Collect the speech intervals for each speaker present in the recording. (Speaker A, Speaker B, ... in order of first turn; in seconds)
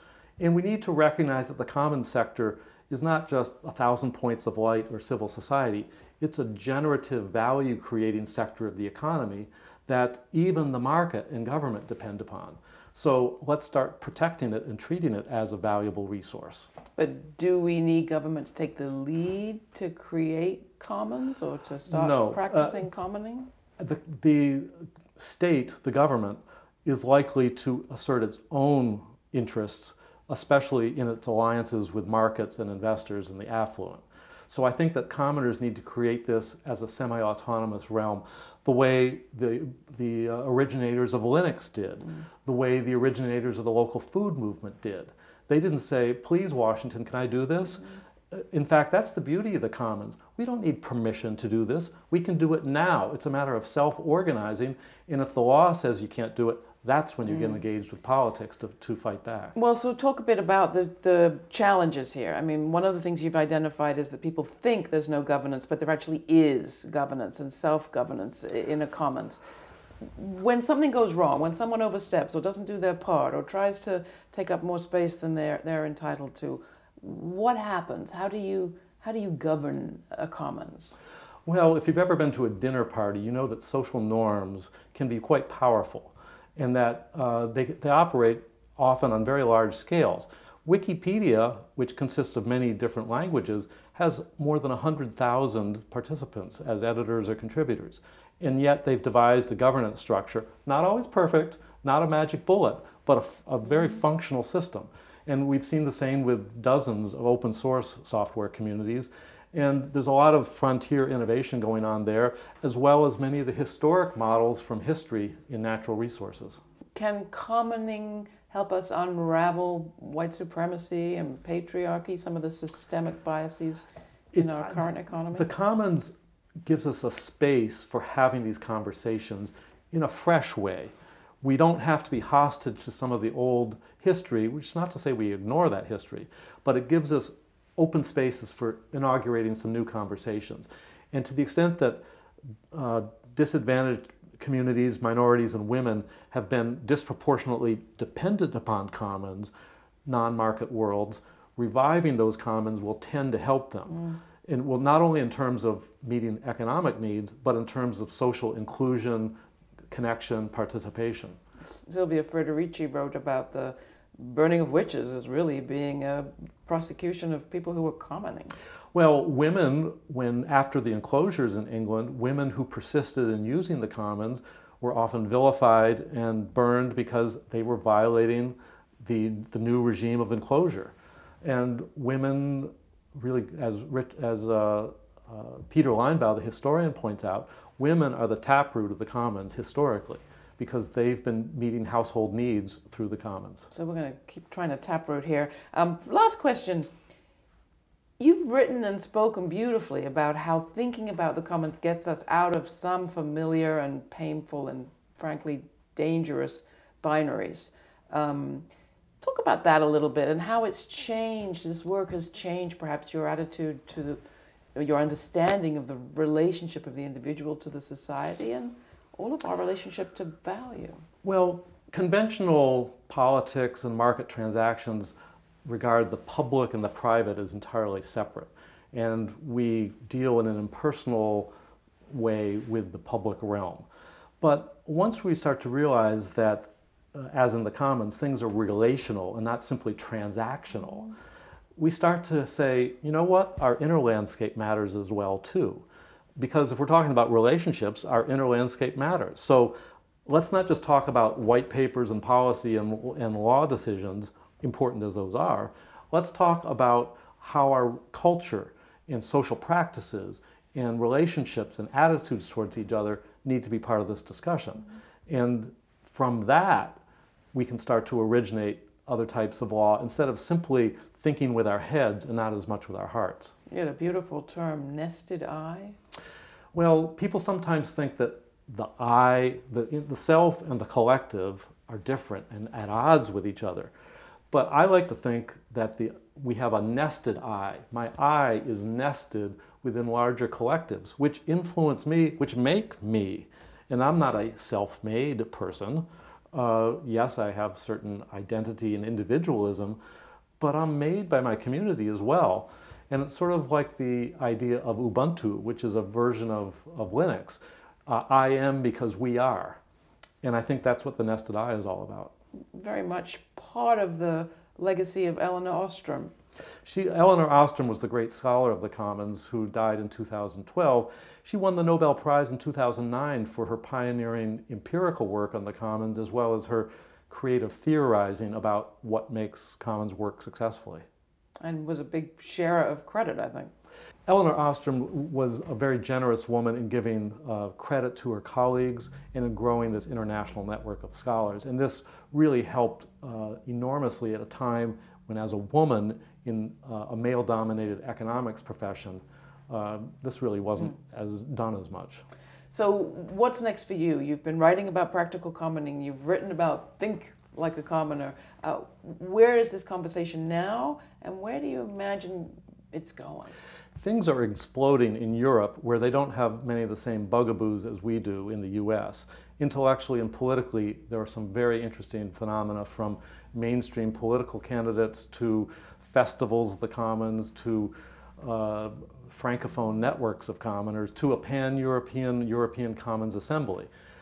Speaker A: 0.4-16.7, 21.9-22.8, 23.8-59.5, 81.5-116.6, 124.3-126.1, 126.6-142.0, 142.7-149.5, 150.1-159.4, 159.9-161.4, 168.9-193.7, 221.2-231.5, 232.1-233.8, 234.4-241.1, 241.8-245.8, 246.4-267.0, 267.5-273.5, 276.7-283.9, 284.5-300.0, 300.6-309.8, 310.4-312.3, 316.8-331.0, 334.3-352.2, 364.0-383.9
Speaker B: 17.0-23.5, 57.2-57.6, 59.5-69.4, 70.0-81.0, 116.9-125.5, 153.9-154.2, 161.6-168.5, 193.7-196.9, 198.2-208.7, 209.2-214.2, 214.7-221.0, 273.7-276.0, 312.7-316.3, 331.6-333.7, 352.7-363.6